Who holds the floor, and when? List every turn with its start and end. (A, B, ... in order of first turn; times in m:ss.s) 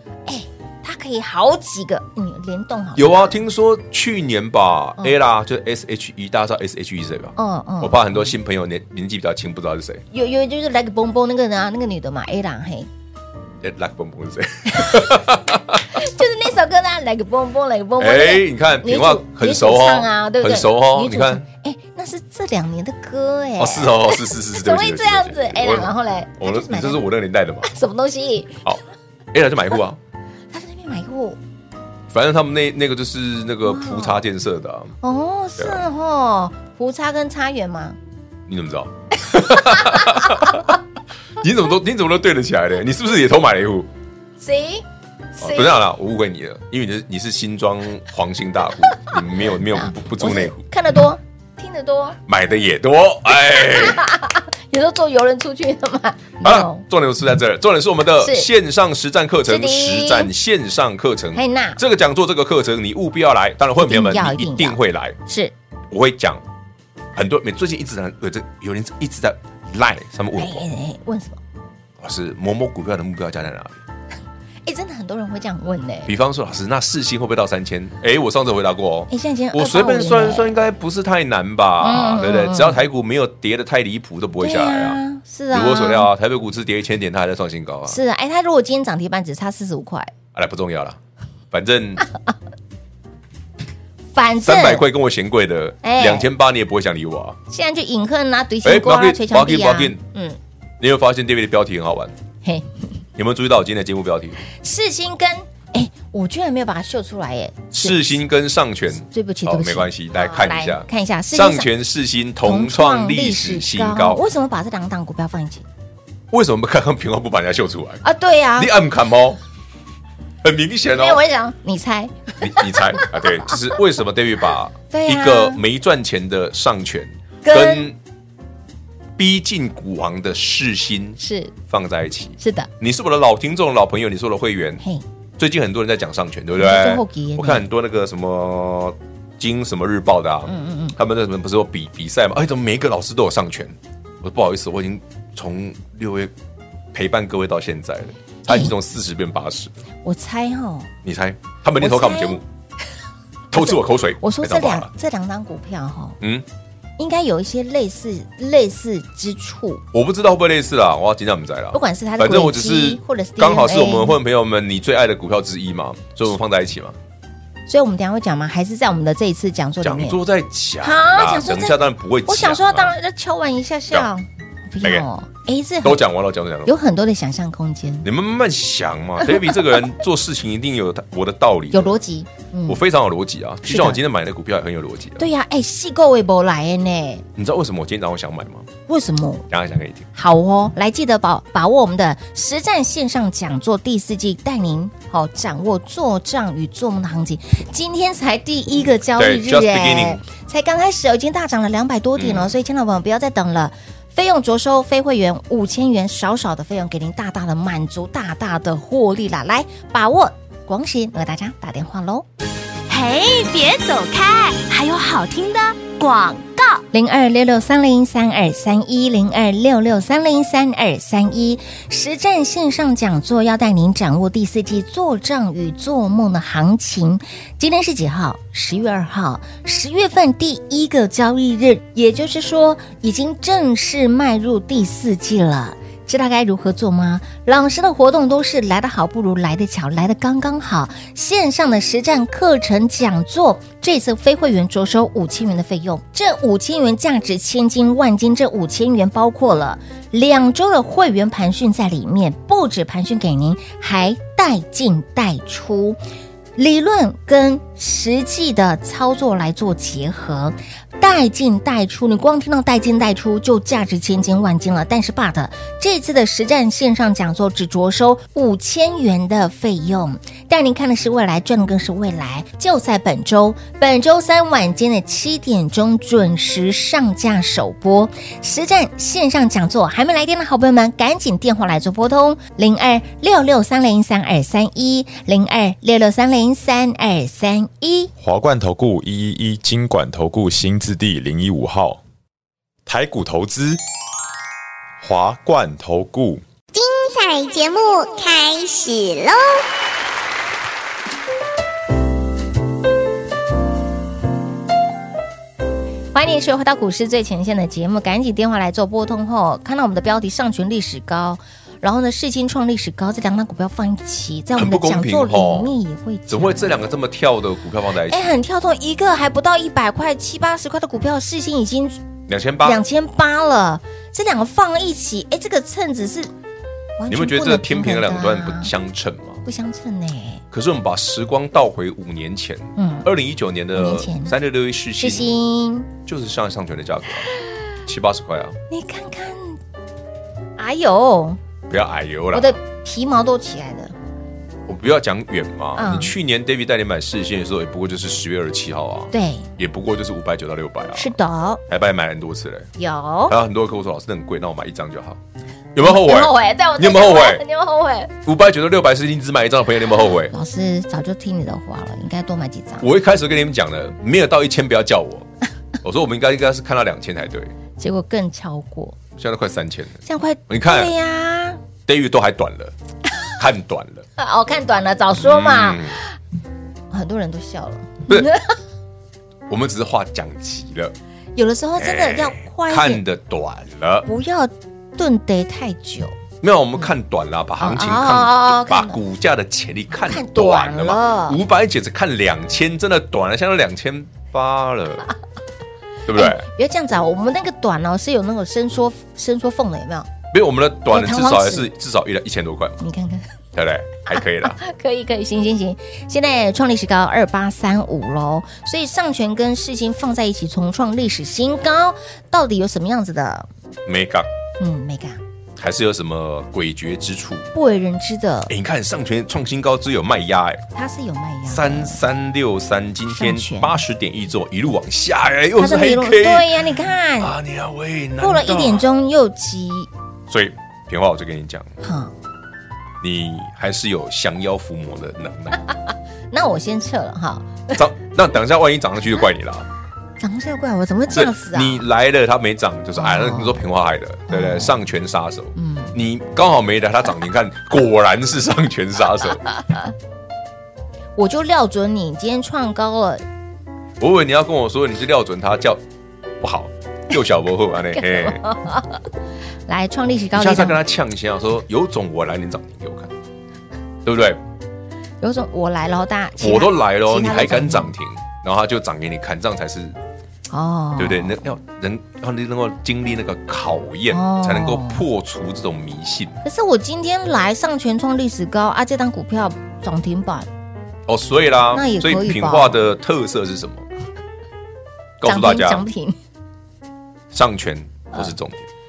0:00.2-0:03.4 A
0:03.0-0:10.0 B
0:07.4-0:08.3 A
0:10.1-0:12.9 A
0:13.6-0:16.0 B
0:14.7-0:15.0 A
0:15.9-0:27.0 A
0:18.0-0:21.4 B
0:23.6-0:27.7 B
0:27.6-0:28.6 A
0:29.3-0:30.0 B
0:30.5-0:31.4 A
0:32.1-0:34.9 B
0:33.6-0:34.2 A
0:35.0-0:38.0 A
0:35.6-0:35.8 B
0:38.5-0:40.8 B
0:39.4-0:40.6 A
0:41.4-0:43.9 B
0:44.4-0:44.8 A
0:45.4-0:45.8 A
0:45.4-0:50.6 B
0:49.7-0:52.2 A
0:52.3-0:54.0 B
0:53.5-0:56.8 A
0:56.4-1:05.2 B
0:58.2-0:58.5 A
0:59.4-1:00.3 A
1:01.3-1:01.8 A
1:03.8-1:05.5 A
1:05.9-1:06.4 B
1:07.1-1:10.6 B
1:10.4-1:11.4 A
1:12.0-1:13.8 B
1:14.6-1:16.1 A
1:16.0-1:25.0 B
1:19.1-1:20.6 A
1:21.8-1:22.8 A
1:24.4-1:26.1 A
1:25.5-1:28.0 B
1:27.9-1:30.1 A
1:30.3-1:31.0 B
1:31.5-1:32.0 B
1:34.1-1:34.8 A
1:34.4-1:37.4 B
1:35.8-1:36.3 A
1:37.5-1:40.4 A
1:38.6-1:40.0 B
1:40.8-1:42.1 B
1:42.4-1:42.7 A
1:43.2-1:44.4 B
1:44.5-1:48.2 A
1:47.7-1:54.2 B
1:49.1-1:51.7 A
1:52.4-1:55.6 A
1:56.3-1:58.0 B
1:58.0-1:58.7 A
1:58.6-1:59.4 B
2:00.4-2:01.2 B
2:00.9-2:03.6 A
2:02.4-2:08.0 B
2:04.9-2:05.6 A
2:07.4-2:07.9 A
2:09.2-2:14.8 B
2:11.2-2:11.5 A
2:12.4-2:12.7 A
2:15.4-2:26.3 B
2:16.6-2:17.6 A
2:20.4-2:21.0 A
2:26.9-2:29.7 B
2:28.5-2:28.7 A
2:30.0-2:30.9 A
2:31.0-2:32.4 B
2:31.8-2:32.4 A
2:33.5-2:34.9 B
2:33.5-2:36.2 A
2:36.2-2:36.4 B
2:37.0-2:39.8 A
2:39.9-2:47.0 B
2:41.7-2:44.2 A
2:47.7-2:50.2 A
2:49.8-2:52.9 B
2:50.8-2:56.0 A
2:55.8-2:56.7 B
2:56.6-2:58.1 A
2:58.0-3:02.0 B
2:59.3-2:59.6 A
3:01.7-3:02.8 A
3:02.7-3:05.3 B
3:03.6-3:04.0 A
3:05.2-3:07.2 A
3:07.4-3:08.7 B
3:08.9-3:09.4 A
3:09.5-3:10.1 B
3:10.1-3:32.2 A
3:19.2-3:20.2 B
3:22.2-3:22.5 B
3:32.9-3:36.8 C
3:36.9-4:16.0 A
4:16.6-4:48.1 A
4:48.2-4:52.0 D
4:52.8-4:53.8 D
4:55.0-4:56.4 D
4:56.7-4:59.6 E
5:06.1-5:16.9 A
5:14.5-5:15.7 B
5:16.3-5:18.3 B
5:18.1-5:22.0 A
5:22.3-5:22.8 B
5:22.6-5:26.3 A
5:27.0-5:28.7 A
5:27.1-5:29.4 B
5:29.4-5:30.4 A
5:30.5-5:35.3 B
5:32.8-5:33.1 A
5:33.7-5:34.3 A
5:35.0-5:35.9 A
5:36.0-5:37.3 B
5:37.8-5:38.6 B
5:38.7-5:39.6 A
5:40.6-5:41.4 A
5:41.7-5:42.6 B
5:42.3-5:43.9 A
5:44.7-5:51.1 B
5:45.8-5:46.1 A
5:49.1-5:49.5 A
5:50.9-5:51.6 A
5:51.7-5:52.7 B
5:52.8-5:53.4 A
5:53.3-5:55.2 B
5:55.7-5:57.4 B
5:55.8-5:58.1 A
5:58.2-6:00.3 B
6:00.3-6:02.9 A
6:02.8-6:05.3 B
6:05.8-6:07.5 B
6:07.8-6:09.0 A
6:09.1-6:10.9 B
6:10.0-6:11.6 A
6:11.9-6:12.7 B
6:13.4-6:14.1 B
6:14.2-6:16.1 A
6:15.1-6:16.0 B
6:16.9-6:18.5 A
6:19.5-6:20.9 B
6:21.4-6:23.0 A
6:21.8-6:24.1 B
6:24.0-6:26.1 A
6:26.4-6:35.1 B
6:27.6-6:29.0 A
6:29.9-6:31.4 A
6:36.0-6:36.5 B
6:36.1-6:40.1 A
6:40.3-6:42.8 B
6:40.9-6:41.7 A
6:42.8-6:43.3 A
6:43.5-6:44.6 B
6:44.1-6:53.5 A
6:53.8-6:54.3 B
6:54.6-6:55.2 A
6:55.6-6:57.5 B
6:57.5-6:58.5 A
6:58.5-7:00.6 B
7:00.7-7:02.0 A
7:01.4-7:06.6 B
7:03.1-7:03.8 A
7:05.6-7:07.3 A
7:07.2-7:08.9 B
7:08.2-7:09.9 A
7:10.3-7:11.7 B
7:11.8-7:12.1 A
7:13.0-7:15.6 B
7:16.3-7:17.7 A
7:17.7-7:19.7 B
7:20.2-7:21.8 A
7:21.1-7:29.4 B
7:23.0-7:23.6 A
7:24.3-7:24.8 A
7:25.6-7:25.9 A
7:29.5-7:29.9 A
7:31.2-7:33.2 A
7:34.0-7:35.8 B
7:36.4-7:38.4 B
7:38.0-7:39.0 A
7:39.7-7:40.8 A
7:40.3-7:43.1 B
7:44.0-7:44.4 B
7:45.2-7:47.9 A
7:46.4-7:50.0 B
7:50.5-7:51.4 A
7:51.0-7:56.4 B
7:54.1-7:55.0 A
7:56.4-8:00.5 A
8:01.1-8:03.9 B
8:01.7-8:02.8 A
8:05.2-8:05.9 B
8:05.2-8:06.2 A
8:07.3-8:08.7 B